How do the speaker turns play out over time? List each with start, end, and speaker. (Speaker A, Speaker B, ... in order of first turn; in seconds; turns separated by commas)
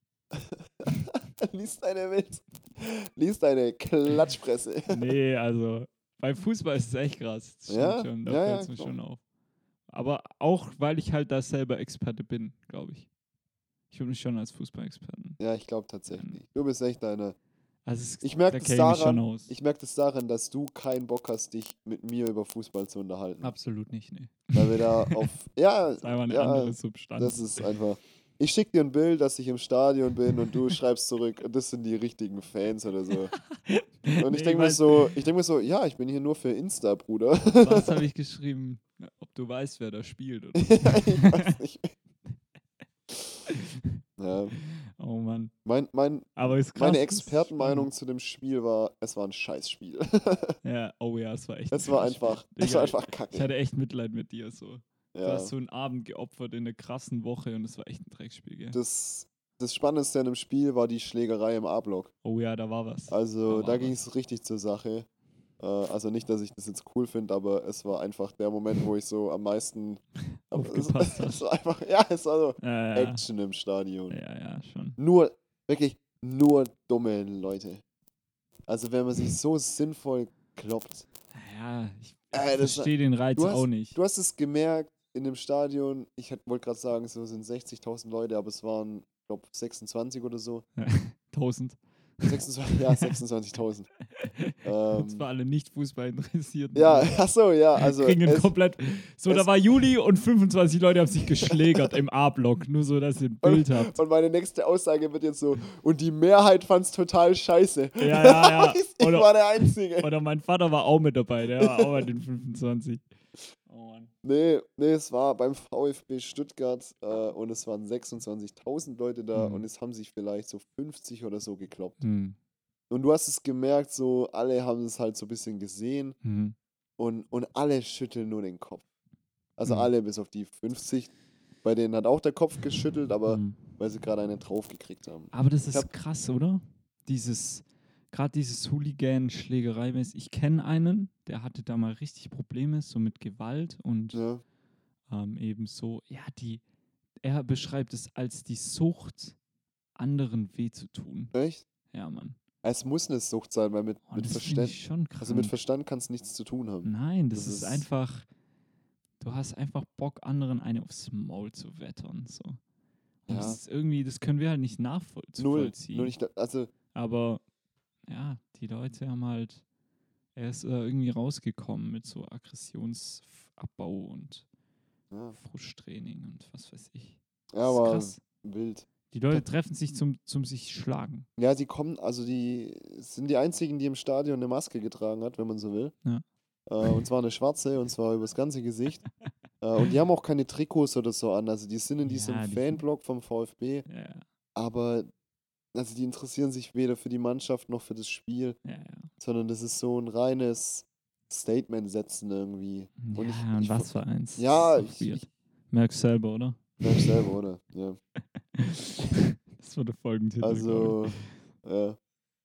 Speaker A: 0.3-5.0, Speaker B: 4.9-9.2, Speaker A: 7.7-8.9, Speaker B: 9.9-13.1, Speaker B: 13.9-15.4, Speaker A: 15.4-17.4, Speaker B: 16.1-16.4, Speaker B: 17.9-19.5, Speaker A: 18.2-23.5, Speaker B: 23.4-25.3, Speaker A: 24.5-33.3, Speaker B: 26.0-27.7, Speaker B: 33.5-35.2, Speaker A: 34.1-38.0, Speaker B: 37.6-41.6, Speaker A: 40.6-41.9, Speaker B: 43.5-44.0, Speaker A: 44.2-44.5, Speaker B: 44.5-45.5, Speaker A: 45.6-50.6, Speaker B: 46.4-47.9, Speaker B: 50.6-58.8, Speaker A: 51.7-53.5, Speaker A: 55.1-55.5, Speaker A: 58.7-62.1, Speaker B: 62.2-64.0, Speaker A: 63.1-65.1, Speaker A: 65.6-74.2, Speaker B: 70.4-71.4, Speaker B: 72.6-73.2, Speaker B: 74.1-75.0, Speaker A: 75.0-77.8, Speaker A: 78.7-81.1, Speaker B: 81.3-84.0, Speaker A: 82.3-90.6, Speaker B: 90.8-92.3, Speaker A: 92.2-93.9, Speaker B: 92.9-93.2, Speaker B: 94.2-97.2, Speaker A: 94.6-95.2, Speaker A: 96.7-98.5, Speaker B: 97.8-104.0, Speaker A: 101.4-102.0, Speaker A: 103.4-110.1, Speaker B: 108.0-109.3, Speaker B: 109.9-113.0, Speaker A: 111.6-112.1, Speaker B: 113.7-114.1, Speaker A: 114.2-122.0, Speaker B: 119.3-119.6, Speaker B: 122.0-122.4, Speaker A: 122.9-126.2, Speaker B: 126.2-126.5, Speaker A: 127.0-128.8, Speaker A: 129.6-131.1, Speaker B: 129.7-129.9, Speaker A: 131.6-135.9, Speaker B: 133.3-133.6, Speaker B: 135.3-144.2, Speaker A: 144.1-144.4, Speaker B: 145.1-146.6, Speaker B: 147.2-149.4, Speaker B: 149.9-151.3, Speaker A: 151.3-151.6, Speaker B: 151.9-152.4, Speaker A: 152.6-157.9, Speaker B: 154.1-155.6, Speaker B: 156.8-158.3, Speaker B: 159.2-162.6, Speaker B: 163.3-166.1, Speaker A: 163.3-163.6, Speaker A: 165.4-166.7, Speaker B: 166.9-167.4, Speaker B: 168.1-169.6, Speaker B: 170.4-174.4, Speaker A: 175.1-175.4, Speaker B: 175.3-178.2, Speaker A: 177.5-179.4, Speaker B: 179.1-181.3, Speaker A: 181.4-185.9, Speaker A: 186.7-189.0, Speaker A: 189.6-193.9, Speaker B: 192.0-192.8, Speaker B: 193.9-194.2, Speaker A: 194.6-195.1, Speaker A: 195.7-198.6, Speaker B: 198.6-199.1, Speaker A: 199.2-205.2, Speaker B: 203.0-207.2, Speaker A: 206.8-208.0, Speaker B: 208.5-211.3, Speaker A: 210.4-212.0